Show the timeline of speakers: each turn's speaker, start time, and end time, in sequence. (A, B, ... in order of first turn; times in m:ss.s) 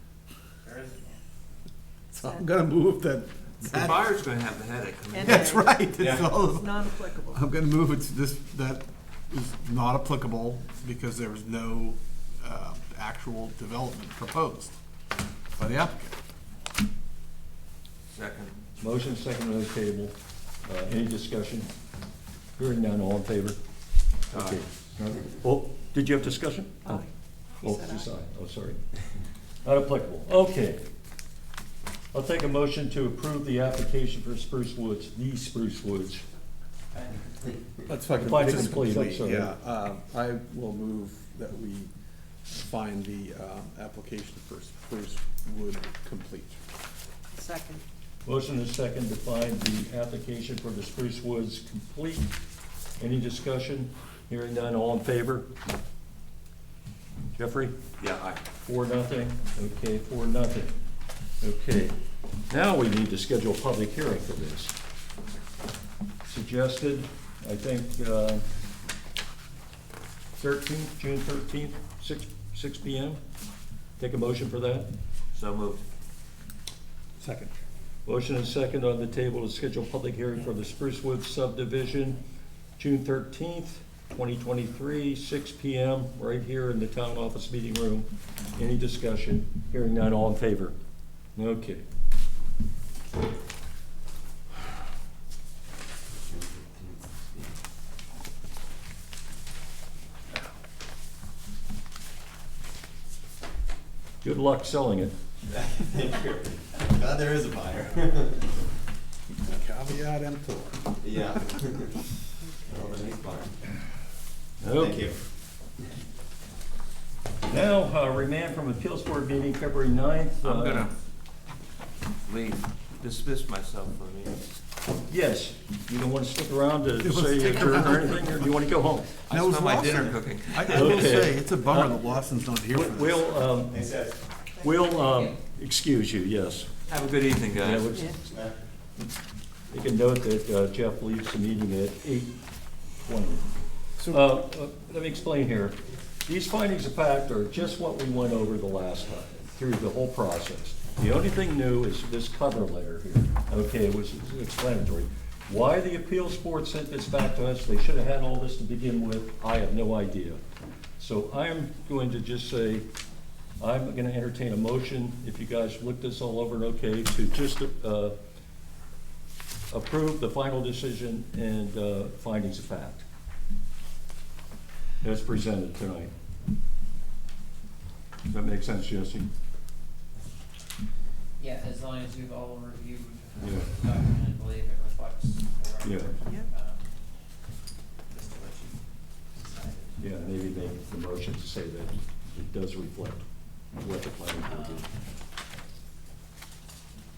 0:00.6-0:01.2 A
0:02.1-0:04.1 B
0:03.6-0:05.4 C
0:05.1-0:05.9 D
0:05.2-0:14.7 B
0:06.0-0:06.4 E
0:06.4-0:07.4 D
0:15.6-0:16.2 B
0:18.1-0:18.6 C
0:18.8-0:21.7 F
0:22.6-0:23.6 F
0:24.3-0:27.0 F
0:24.3-0:24.6 C
0:26.8-0:27.1 D
0:27.6-0:28.8 F
0:27.6-0:28.1 D
0:29.6-0:30.8 F
0:32.1-0:36.2 F
0:36.9-0:37.7 A
0:37.9-0:41.9 B
0:38.2-0:39.5 F
0:42.5-0:46.6 B
0:47.3-0:47.8 D
0:48.2-0:52.3 F
0:53.0-0:55.4 F
0:57.4-0:57.7 F
0:58.0-0:58.4 C
0:58.5-1:00.7 F
1:01.4-1:01.9 F
1:02.5-1:04.7 F
1:06.3-1:08.4 F
1:10.3-1:13.2 F
1:14.0-1:14.9 F
1:15.3-1:15.8 C
1:17.2-1:17.5 B
1:18.0-1:22.2 F
1:22.8-1:30.7 F
1:31.4-1:31.8 F
1:36.1-1:37.5 E
1:44.2-1:45.1 F
1:45.5-1:48.5 E
1:49.3-1:51.5 B
1:51.0-1:52.0 E
1:52.6-1:53.6 E
1:54.6-1:55.1 F
1:54.7-1:55.2 E
1:57.5-2:00.9 F
2:00.4-2:00.9 C
2:02.2-2:04.4 C
2:05.1-2:09.2 F
2:07.0-2:08.5 B
2:09.2-2:11.3 C
2:09.3-2:13.2 B
2:10.6-2:12.0 F
2:12.7-2:13.9 F
2:13.0-2:14.9 E
2:14.6-2:16.8 F
2:16.9-2:17.9 C
2:17.6-2:18.2 F
2:18.2-2:18.6 E
2:19.7-2:22.3 F
2:23.0-2:23.5 F
2:24.0-2:24.2 B
2:24.1-2:40.4 F
2:41.0-2:42.8 F
2:43.6-2:48.1 F
2:49.7-2:53.0 F
2:55.0-2:56.1 F
2:58.3-2:59.3 F
3:01.4-3:07.0 A
3:03.4-3:03.7 F
3:05.8-3:06.1 F
3:08.1-3:10.3 A
3:10.0-3:13.2 F
3:13.8-3:14.9 F
3:14.4-3:14.9 A